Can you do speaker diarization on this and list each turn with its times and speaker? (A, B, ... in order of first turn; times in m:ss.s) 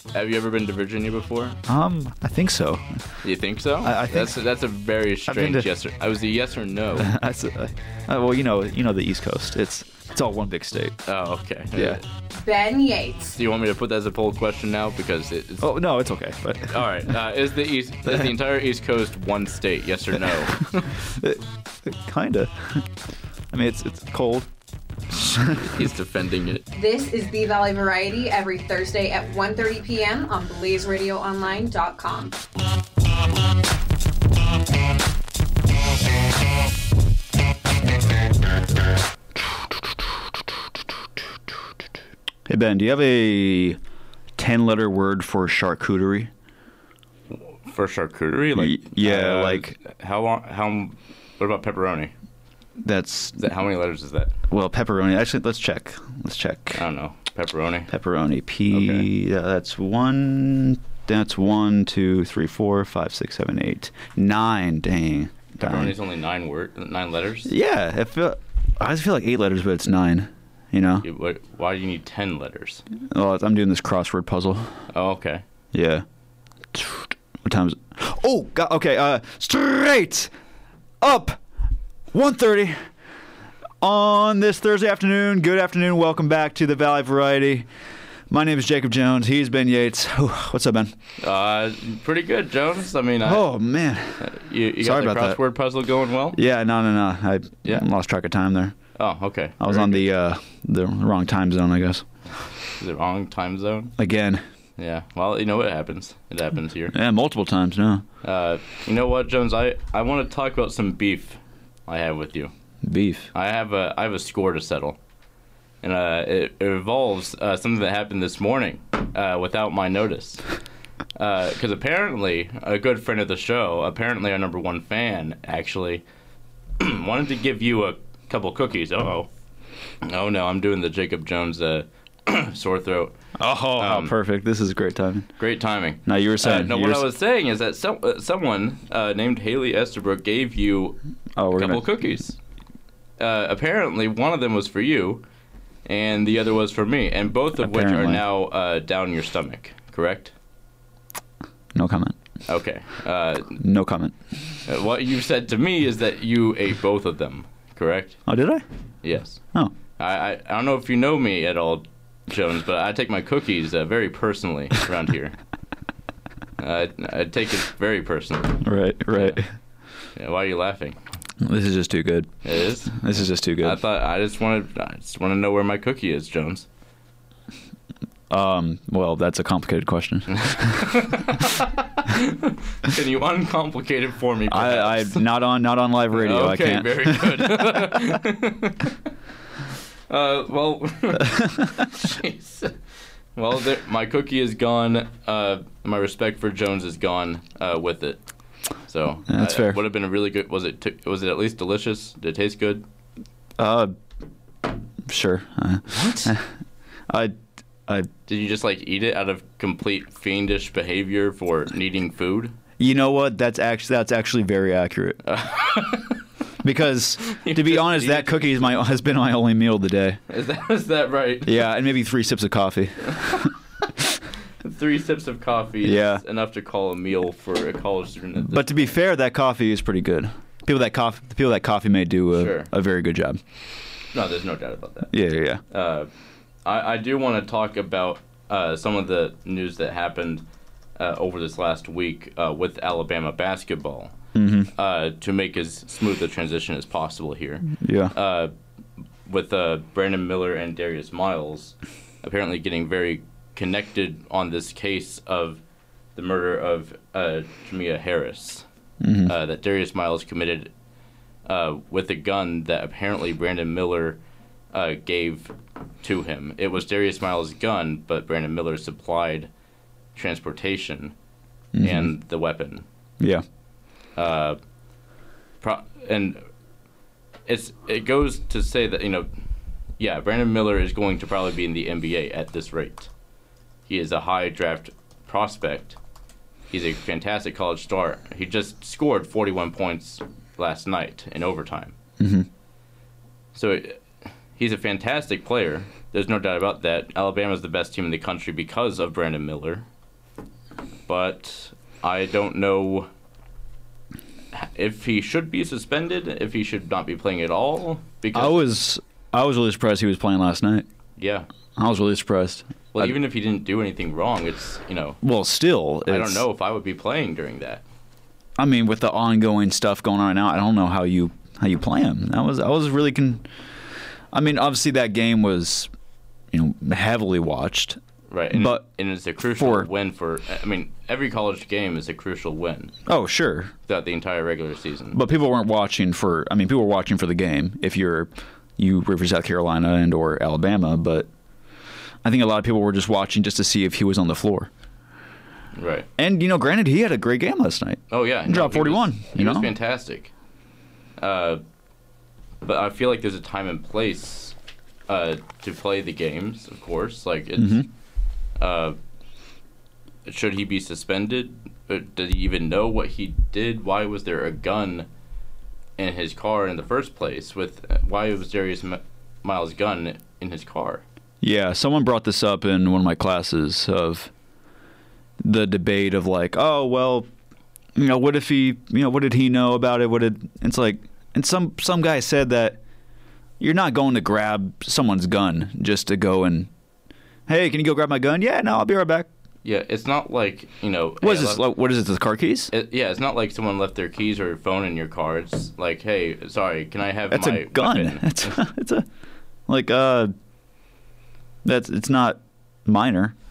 0:00.1-0:01.6 A
0:01.7-0:03.0 B
0:03.2-0:07.1 A
0:03.8-0:04.4 B
0:05.3-0:05.7 B
0:07.0-0:11.0 B
0:11.0-0:12.0 A
0:11.8-0:12.0 B
0:12.3-0:13.4 C
0:13.3-0:15.7 A
0:15.6-0:17.1 B
0:16.7-0:20.9 A
0:18.1-0:18.3 B
0:21.0-0:22.9 B
0:23.5-0:24.5 B
0:25.1-0:25.7 B
0:25.2-0:26.6 A
0:26.7-0:32.4 C
0:42.5-0:43.8 B
0:44.4-0:46.3 B
0:47.3-0:52.1 A
0:48.6-0:49.8 B
0:52.8-0:53.5 B
0:53.4-0:54.3 A
0:54.5-0:56.8 B
0:56.8-0:57.9 A
0:57.9-1:06.0 B
0:58.7-0:59.1 A
1:05.6-1:07.5 A
1:07.5-1:11.0 B
1:11.0-1:12.8 A
1:13.1-1:14.8 B
1:14.9-1:15.4 A
1:15.7-1:16.0 B
1:16.7-1:20.3 B
1:21.0-1:21.4 B
1:22.1-1:22.8 B
1:23.8-1:27.7 B
1:28.3-1:30.9 B
1:31.2-1:33.4 A
1:33.2-1:34.2 B
1:34.2-1:36.4 A
1:34.8-1:35.4 B
1:36.3-1:38.8 B
1:39.0-1:40.1 A
1:39.6-1:42.0 B
1:42.8-1:43.9 A
1:44.0-1:44.4 B
1:44.8-1:46.9 A
1:46.9-1:48.0 B
1:48.2-1:52.5 A
1:52.8-1:53.3 B
1:53.3-1:55.0 A
1:55.8-2:00.4 A
2:01.2-2:06.0 A
2:06.8-2:09.3 A
2:10.0-2:13.2 A
2:13.4-2:15.3 B
2:13.8-2:14.2 A
2:15.4-2:21.0 A
2:16.1-2:17.0 B
2:21.4-2:21.8 B
2:21.5-2:22.4 A
2:23.2-2:25.2 A
2:25.8-2:30.3 A
2:27.6-2:28.2 B
2:31.8-2:32.2 B
2:32.5-2:33.6 A
2:33.6-2:34.2 B
2:34.7-2:38.2 A
2:38.3-2:38.6 B
2:39.0-2:39.4 A
2:40.0-2:45.4 A
2:46.6-2:48.6 A
2:48.6-2:49.5 B
2:50.2-2:51.0 A
2:51.4-2:52.3 B
2:52.4-2:53.0 A
2:52.9-2:53.8 B
2:53.6-2:56.7 A
2:58.3-3:00.9 B
3:00.3-3:05.2 A
3:04.5-3:07.8 B
3:06.1-3:08.9 A
3:10.1-3:12.8 A
3:11.3-3:11.7 B
3:13.4-3:18.2 A
3:18.9-3:22.8 A
3:19.3-3:19.8 B
3:23.6-3:23.9 B
3:25.1-3:26.5 B
3:25.9-3:26.3 A
3:27.1-3:27.4 B
3:28.3-3:32.6 A
3:32.8-3:35.2 B
3:35.2-3:36.2 A
3:36.6-3:40.2 B
3:37.3-3:38.8 A
3:40.3-3:41.6 A
3:41.4-3:43.5 B
3:44.6-3:48.9 A
3:45.8-3:46.2 B
3:48.4-3:53.4 B
3:52.3-3:52.7 A
3:54.1-3:55.1 A
3:55.1-3:55.6 B
3:55.7-3:56.1 A
3:56.6-4:00.4 A
4:01.0-4:04.1 A
4:04.4-4:04.7 B
4:04.7-4:08.5 A
4:07.8-4:08.1 B
4:09.2-4:15.6 A
4:16.2-4:18.6 A
4:19.0-4:19.3 B
4:19.3-4:20.7 A
4:21.5-4:24.2 A
4:24.7-4:29.5 A
4:30.2-4:31.1 A
4:31.7-4:32.1 B
4:31.8-4:32.9 A
4:34.2-4:34.6 A
4:35.6-4:36.4 A
4:37.5-4:39.3 A
4:40.0-4:43.1 A
4:43.9-4:46.0 A
4:46.7-4:51.9 A
4:52.2-4:52.5 B
4:53.5-4:59.9 A
5:01.1-5:03.1 A
5:04.5-5:08.6 A
5:08.3-5:10.9 B
5:11.2-5:11.5 A
5:11.8-5:13.2 B
5:12.9-5:15.2 A
5:15.2-5:16.4 B
5:16.1-5:17.8 A
5:18.6-5:23.4 B
5:24.3-5:25.9 B
5:26.5-5:28.0 B
5:28.3-5:32.9 A
5:28.5-5:28.9 B
5:29.6-5:29.9 B
5:33.1-5:33.7 B
5:33.9-5:35.2 A
5:35.1-5:41.3 B
5:42.2-5:44.7 B
5:45.7-5:46.1 A
5:46.2-5:49.7 B
5:48.1-5:50.3 A
5:51.2-5:51.6 A
5:52.6-5:54.6 A
5:55.1-5:57.9 A
5:57.6-5:57.9 B
5:58.6-5:59.0 A
6:00.2-6:05.1 A
6:06.0-6:11.0 A
6:11.4-6:14.3 B
6:15.4-6:17.3 B
6:18.0-6:22.8 B
6:23.6-6:26.7 B
6:27.5-6:29.3 B
6:29.6-6:31.7 A
6:31.2-6:32.7 B
6:32.7-6:38.6 A
6:37.3-6:39.1 B
6:39.7-6:40.3 B
6:41.6-6:43.3 B